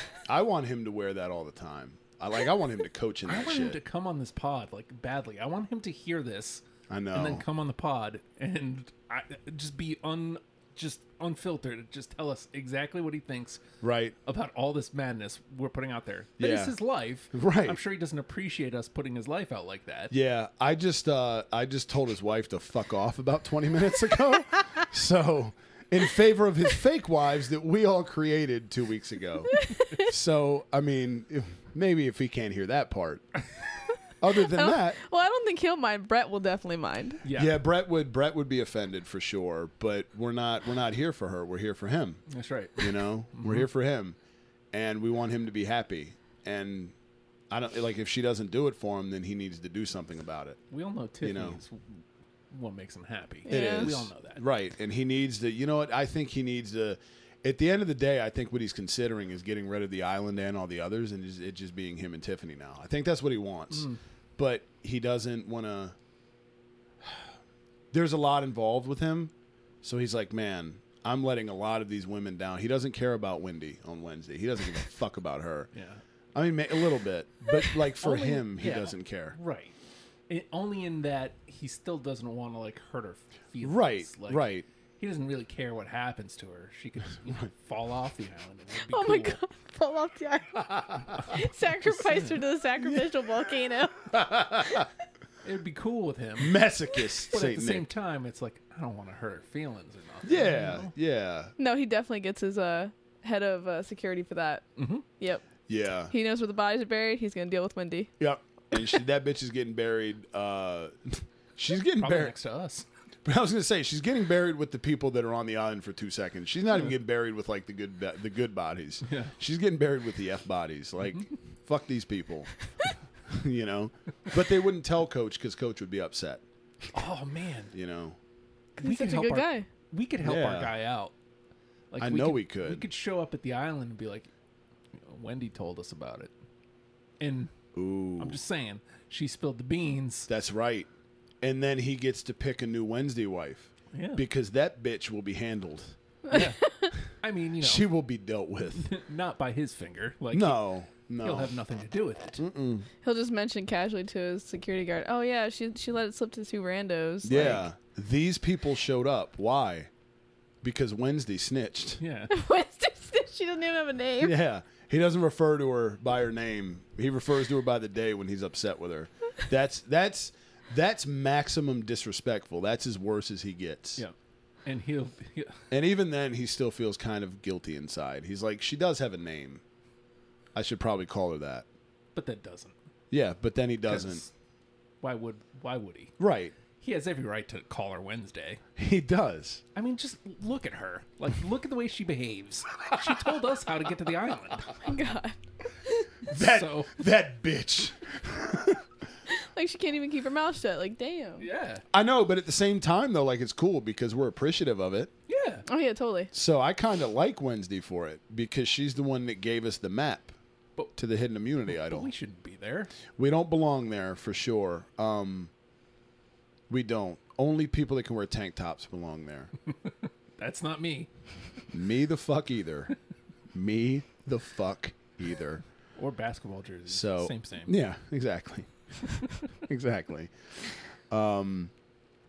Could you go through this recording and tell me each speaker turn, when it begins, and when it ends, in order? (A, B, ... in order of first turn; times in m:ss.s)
0:00.3-0:03.8 A
0:03.2-0:13.6 B
0:06.9-0:07.4 A
0:13.8-0:14.1 A
0:14.2-0:20.1 B
0:16.4-0:16.7 A
0:17.3-0:17.8 A
0:20.1-0:33.2 A
0:29.6-0:29.9 C
0:34.2-0:35.0 A
0:34.5-0:37.2 C
0:37.2-0:37.6 B
0:37.3-0:42.2 A
0:42.3-0:43.7 B
0:42.8-0:44.2 A
0:44.7-0:46.9 A
0:47.5-0:50.6 A
0:50.7-0:54.4 B
0:51.2-0:51.6 A
0:53.5-0:53.9 C
0:53.5-1:06.0 A
1:07.9-1:15.7 A
1:15.7-1:16.0 B
1:16.3-1:19.4 A
1:18.0-1:19.7 B
1:20.3-1:29.4 B
1:23.6-1:24.6 A
1:28.9-1:34.1 C
1:30.7-1:31.0 A
1:31.2-1:32.4 B
1:34.1-1:34.9 A
1:35.4-1:36.6 B
1:36.4-1:37.9 A
1:37.3-1:40.9 B
1:40.2-1:41.5 A
1:41.6-1:44.6 C
1:44.8-1:45.0 B
1:45.2-1:45.4 C
1:45.7-1:46.1 A
1:46.1-1:48.1 C
1:48.2-1:52.3 A
1:52.0-1:52.8 B
1:53.2-2:02.5 A
1:59.0-1:59.3 B
2:03.2-2:06.4 A
2:06.9-2:07.7 B
2:07.7-2:08.2 A
2:08.8-2:09.6 C
2:08.8-2:11.1 B
2:10.2-2:10.7 A
2:11.9-2:14.3 B
2:12.0-2:12.8 A
2:14.9-2:16.3 B
2:17.2-2:17.5 B
2:17.7-2:18.4 A
2:18.2-2:20.3 B
2:20.3-2:20.9 A
2:21.4-2:26.0 A
2:23.9-2:24.2 B
2:26.3-2:26.6 B
2:26.3-2:26.9 C
2:27.2-2:27.9 B
2:27.6-2:28.9 A
2:28.8-2:32.4 B
2:30.3-2:31.5 A
2:32.4-2:32.9 A
2:33.0-2:37.6 C
2:37.2-2:39.9 A
2:40.6-2:42.0 A
2:42.0-2:42.3 B
2:42.3-2:44.3 C
2:44.2-2:54.0 A
2:54.6-2:55.6 B
2:55.7-2:59.6 A
3:00.5-3:01.6 A
3:02.1-3:02.7 B
3:03.1-3:04.2 A
3:03.9-3:04.3 B
3:05.0-3:06.1 B
3:06.2-3:06.5 A
3:06.8-3:08.6 B
3:08.8-3:09.6 A
3:09.7-3:14.7 B
3:14.8-3:16.1 C
3:16.3-3:18.8 A
3:16.3-3:17.0 B
3:19.3-3:21.4 C
3:21.4-3:21.8 B
3:21.9-3:25.1 A
3:25.3-3:25.6 B
3:25.6-3:26.3 C
3:26.3-3:30.3 A
3:31.0-3:32.1 A
3:31.7-3:32.9 B
3:33.2-3:35.5 A
3:36.7-3:39.5 A
3:39.8-3:41.1 B
3:41.7-3:42.9 A
3:43.5-3:45.6 A
3:46.0-3:47.7 B
3:46.9-3:48.7 A
3:49.6-3:51.7 A